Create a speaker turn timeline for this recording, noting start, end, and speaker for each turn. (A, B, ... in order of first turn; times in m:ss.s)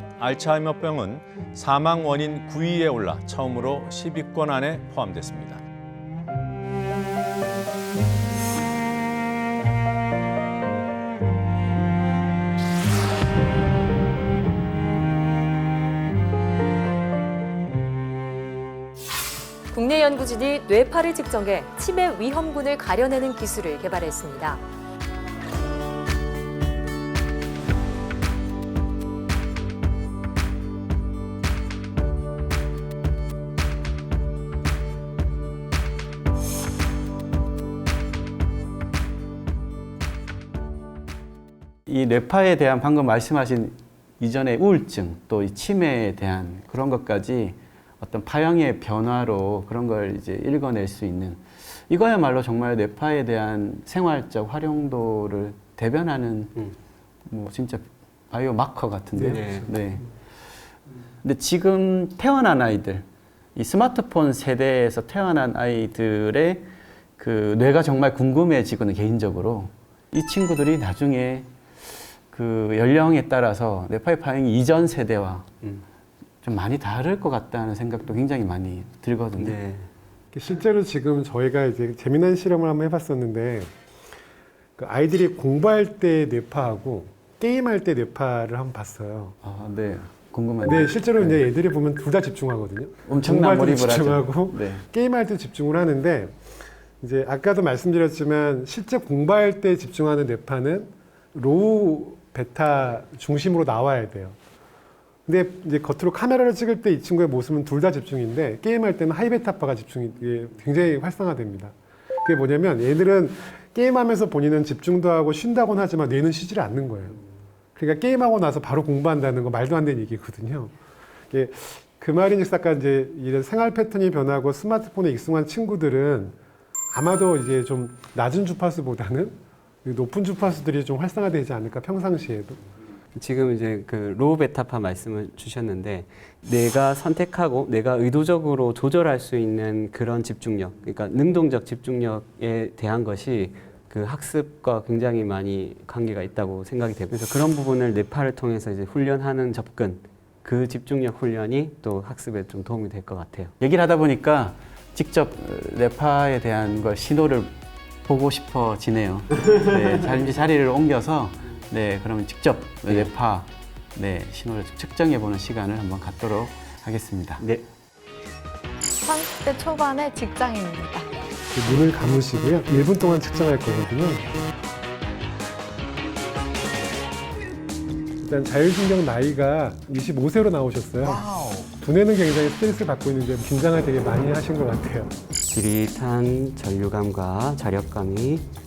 0:00.2-0:05.6 A
0:19.7-0:24.6 B
0:41.9-0:56.7 C
0:57.2-1:00.0 C
0:59.2-0:59.7 D
1:01.2-1:03.0 C
1:03.6-1:06.6 C
1:07.2-1:11.5 C
1:12.3-1:15.5 C
1:16.4-1:19.6 C
1:19.4-1:19.9 D
1:20.3-1:23.7 E
1:24.8-1:29.4 E
1:29.4-1:31.4 C
1:30.6-1:36.5 E
1:33.0-1:34.8 C
1:37.0-1:44.4 E
1:45.3-1:51.7 E
1:52.2-1:57.2 E
1:57.8-2:00.7 E
2:01.3-2:06.3 E
2:06.9-2:12.6 E
2:13.1-2:33.5 D
2:33.6-2:37.5 C
2:38.1-2:47.4 C
2:47.4-2:47.6 D
2:49.0-2:51.1 F
2:51.5-2:54.2 E
2:58.2-3:05.1 E
3:01.1-3:01.4 C
3:05.5-3:08.4 D